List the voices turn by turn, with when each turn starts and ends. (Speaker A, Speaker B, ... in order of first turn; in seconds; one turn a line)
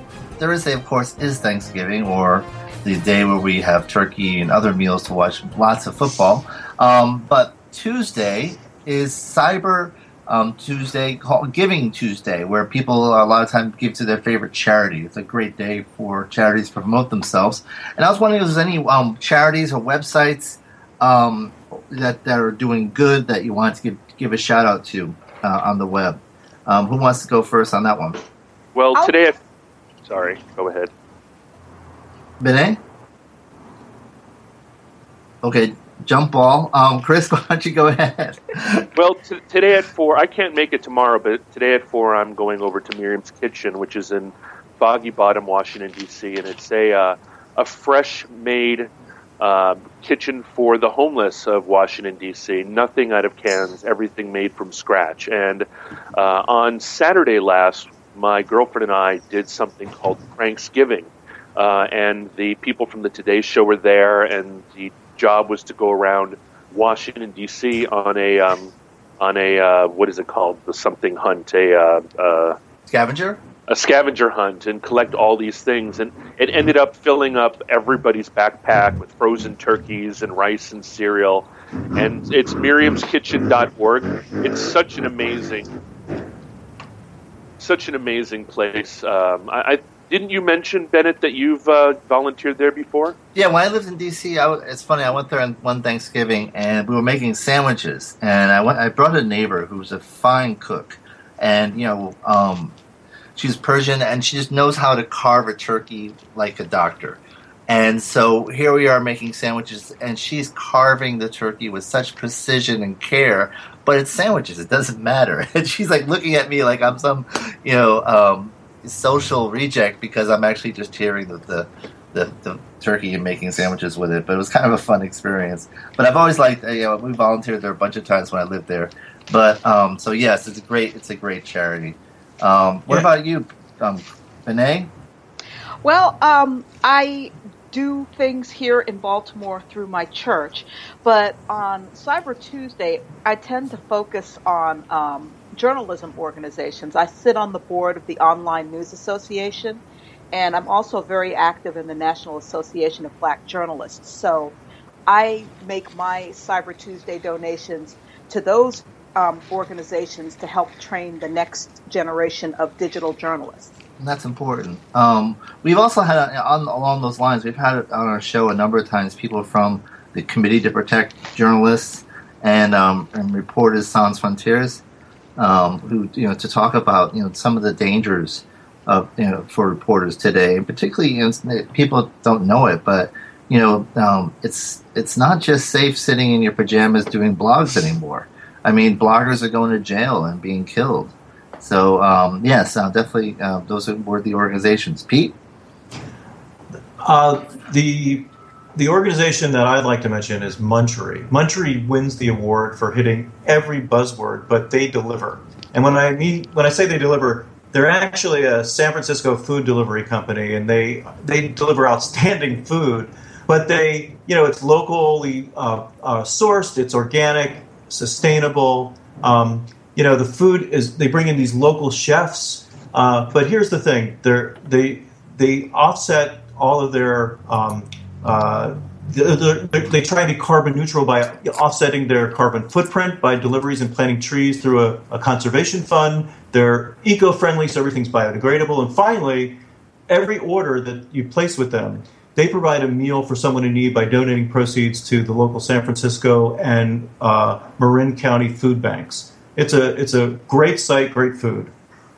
Speaker A: 0.4-28.2
Speaker B: 28.8-29.4
Speaker B: 30.1-30.9
Speaker A: 32.4-32.8
Speaker A: 35.4-38.9
Speaker B: 39.0-55.7
Speaker B: 56.2-72.6
Speaker A: 72.9-73.4
Speaker B: 73.7-85.7
Speaker B: 87.6-93.2
Speaker A: 93.3-102.8
Speaker A: 103.4-134.9
Speaker C: 135.8-154.6
Speaker C: 155.1-163.7
Speaker A: 164.0-174.8
Speaker A: 175.4-195.3
Speaker D: 197.0-251.7